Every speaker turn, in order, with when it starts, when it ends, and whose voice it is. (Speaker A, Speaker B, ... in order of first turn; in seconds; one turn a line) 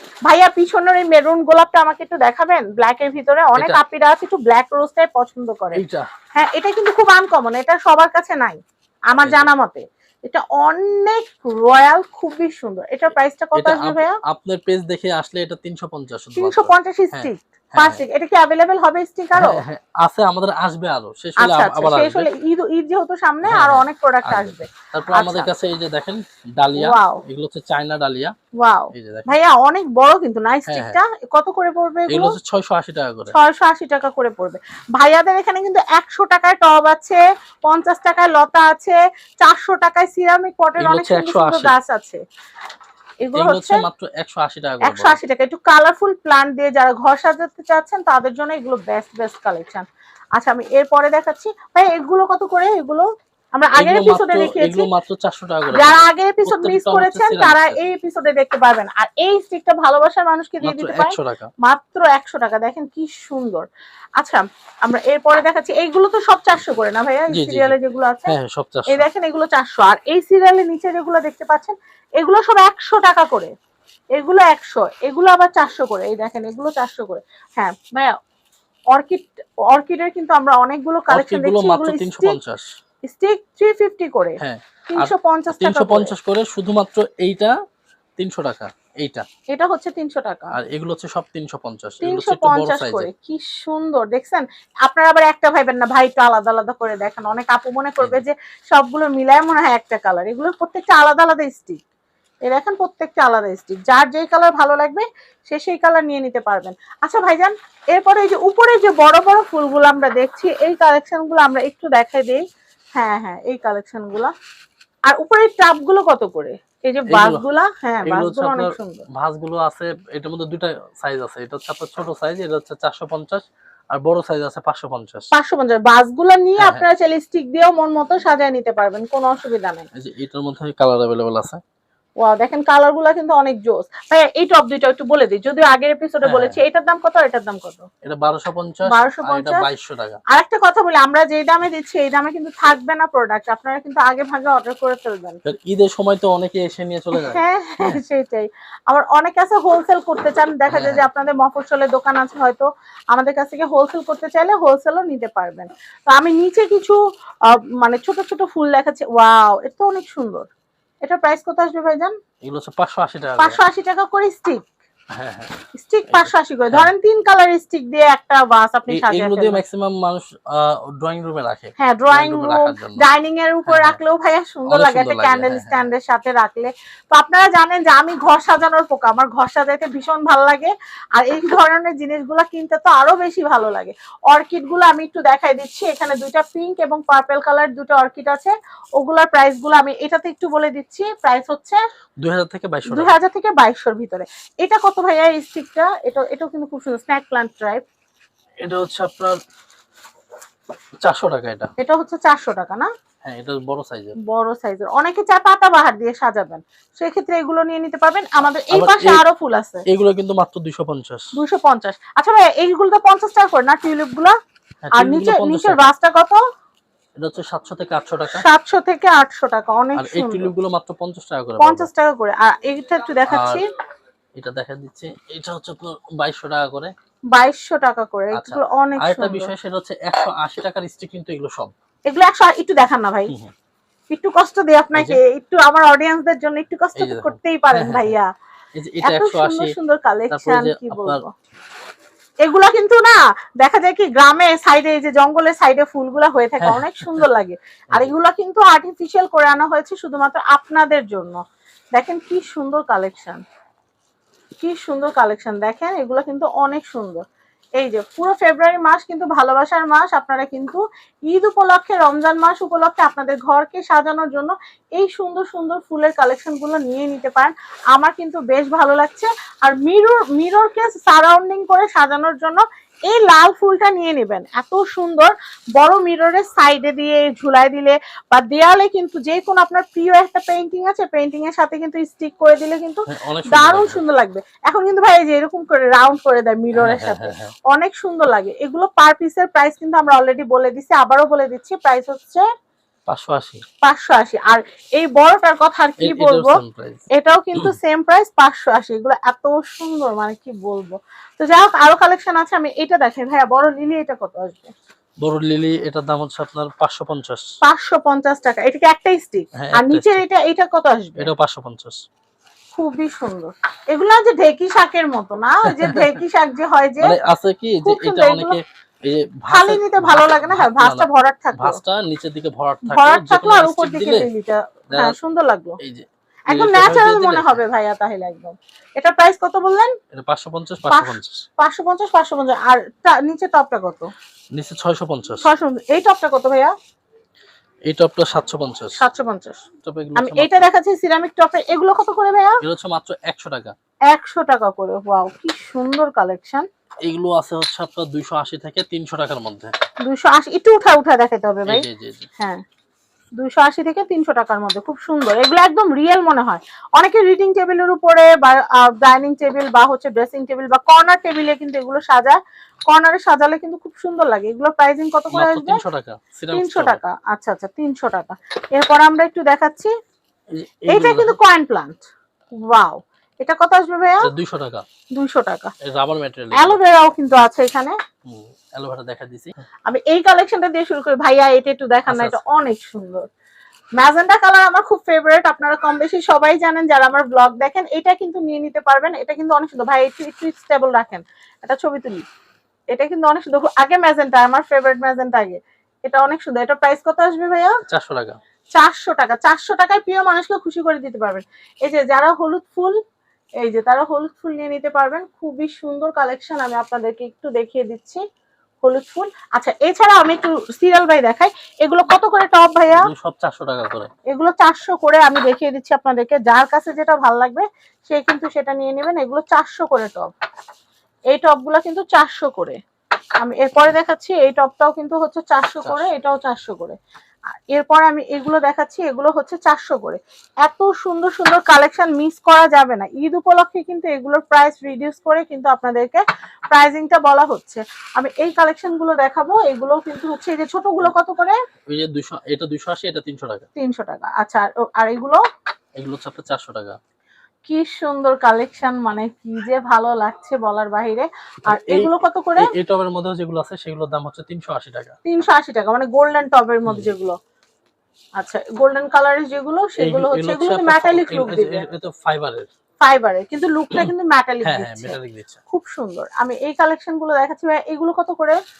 Speaker A: 0.2-5.8
Speaker B: 3.5-3.8
Speaker B: 5.7-6.1
Speaker A: 6.3-14.2
Speaker B: 9.2-9.5
Speaker B: 13.5-18.0
Speaker A: 16.4-19.6
Speaker B: 19.3-22.3
Speaker A: 21.4-25.5
Speaker B: 23.4-28.3
Speaker A: 26.8-27.2
Speaker A: 28.6-32.4
Speaker B: 28.9-29.3
Speaker B: 30.7-31.0
Speaker B: 32.1-33.3
Speaker A: 33.3-42.2
Speaker B: 40.8-41.7
Speaker A: 43.2-43.8
Speaker B: 43.3-45.2
Speaker A: 44.8-49.8
Speaker A: 50.4-54.9
Speaker B: 53.8-57.8
Speaker A: 55.7-68.3
Speaker B: 60.6-61.5
Speaker B: 67.3-69.0
Speaker A: 68.9-73.5
Speaker A: 74.2-78.1
Speaker A: 78.9-82.4
Speaker B: 81.1-82.7
Speaker A: 83.0-86.1
Speaker B: 84.4-87.5
Speaker B: 88.2-89.2
Speaker A: 89.5-90.5
Speaker B: 90.5-93.1
Speaker A: 92.0-101.8
Speaker A: 102.5-112.4
Speaker A: 113.0-114.3
Speaker A: 115.0-119.0
Speaker B: 117.1-117.4
Speaker B: 118.0-125.3
Speaker A: 125.3-129.9
Speaker B: 126.6-126.8
Speaker B: 129.9-131.6
Speaker A: 132.2-137.8
Speaker B: 136.2-136.6
Speaker B: 138.0-140.2
Speaker A: 138.8-139.6
Speaker A: 140.3-145.4
Speaker B: 145.4-148.0
Speaker A: 147.2-160.5
Speaker B: 150.7-151.1
Speaker A: 161.0-162.1
Speaker B: 162.4-163.6
Speaker A: 163.4-164.6
Speaker B: 165.1-165.6
Speaker A: 165.7-169.6
Speaker B: 166.1-166.9
Speaker B: 168.9-173.0
Speaker A: 171.8-191.8
Speaker B: 173.7-174.0
Speaker B: 174.7-175.9
Speaker B: 192.2-193.2
Speaker A: 192.9-197.8
Speaker B: 198.6-199.4
Speaker B: 201.0-201.7
Speaker A: 201.8-202.9
Speaker B: 203.2-204.2
Speaker A: 204.2-209.8
Speaker B: 208.7-209.2
Speaker B: 209.9-211.3
Speaker A: 211.3-214.3
Speaker B: 214.8-215.9
Speaker A: 214.9-216.4
Speaker B: 217.2-218.4
Speaker A: 218.3-220.5
Speaker B: 219.9-221.9
Speaker A: 221.6-223.6
Speaker B: 223.3-223.6
Speaker B: 224.4-226.9
Speaker A: 227.3-229.5
Speaker B: 228.3-231.7
Speaker A: 232.1-233.3
Speaker A: 234.1-238.3
Speaker B: 234.9-235.2
Speaker B: 237.0-238.1
Speaker B: 238.7-239.7
Speaker A: 239.0-241.3
Speaker B: 240.3-241.2
Speaker A: 242.4-251.4
Speaker B: 246.6-247.2
Speaker A: 251.9-253.4
Speaker A: 254.6-257.2
Speaker A: 257.8-292.5
Speaker B: 283.1-284.0
Speaker B: 286.7-287.5
Speaker B: 293.1-293.6
Speaker A: 293.8-296.6
Speaker B: 296.0-297.8
Speaker A: 297.1-304.7
Speaker B: 305.2-307.4
Speaker A: 307.6-311.3
Speaker B: 309.6-310.2
Speaker B: 311.2-312.0
Speaker A: 312.7-317.1
Speaker B: 315.6-316.2
Speaker B: 317.0-324.3
Speaker A: 317.8-318.6
Speaker A: 319.5-321.8
Speaker A: 322.8-325.8
Speaker B: 324.9-325.2
Speaker B: 325.8-327.6
Speaker A: 326.5-329.9
Speaker B: 330.1-331.4
Speaker A: 330.9-334.1
Speaker B: 334.5-335.5
Speaker A: 335.4-336.7
Speaker B: 337.9-339.0
Speaker A: 338.9-339.6
Speaker B: 339.8-340.7
Speaker A: 340.1-342.6
Speaker B: 342.6-343.7
Speaker A: 344.1-346.6
Speaker B: 347.0-349.7
Speaker A: 350.0-351.9
Speaker B: 351.7-352.3
Speaker A: 352.4-352.6
Speaker A: 353.4-365.8
Speaker B: 365.3-367.0
Speaker A: 366.5-369.9
Speaker B: 370.5-371.4
Speaker A: 370.9-372.0
Speaker A: 372.5-374.3
Speaker B: 374.2-374.8
Speaker A: 375.1-375.7
Speaker B: 375.8-376.8
Speaker A: 376.6-377.9
Speaker B: 378.2-379.5
Speaker A: 379.9-383.2
Speaker B: 382.1-382.4
Speaker A: 384.0-392.2
Speaker A: 392.9-397.7
Speaker B: 397.9-398.4
Speaker A: 398.7-402.9
Speaker A: 403.6-408.2
Speaker A: 408.8-413.1
Speaker B: 412.9-414.1
Speaker A: 414.3-420.3
Speaker A: 421.3-422.8
Speaker A: 423.4-426.9
Speaker B: 425.8-426.1
Speaker A: 427.6-441.6
Speaker B: 441.9-443.6
Speaker A: 443.8-445.4
Speaker B: 446.0-446.9
Speaker A: 447.7-452.7
Speaker B: 451.7-455.1
Speaker A: 455.2-457.3
Speaker B: 456.9-457.1
Speaker A: 458.4-461.8
Speaker B: 460.0-462.7
Speaker A: 463.0-465.2
Speaker B: 464.6-465.6
Speaker A: 465.7-468.6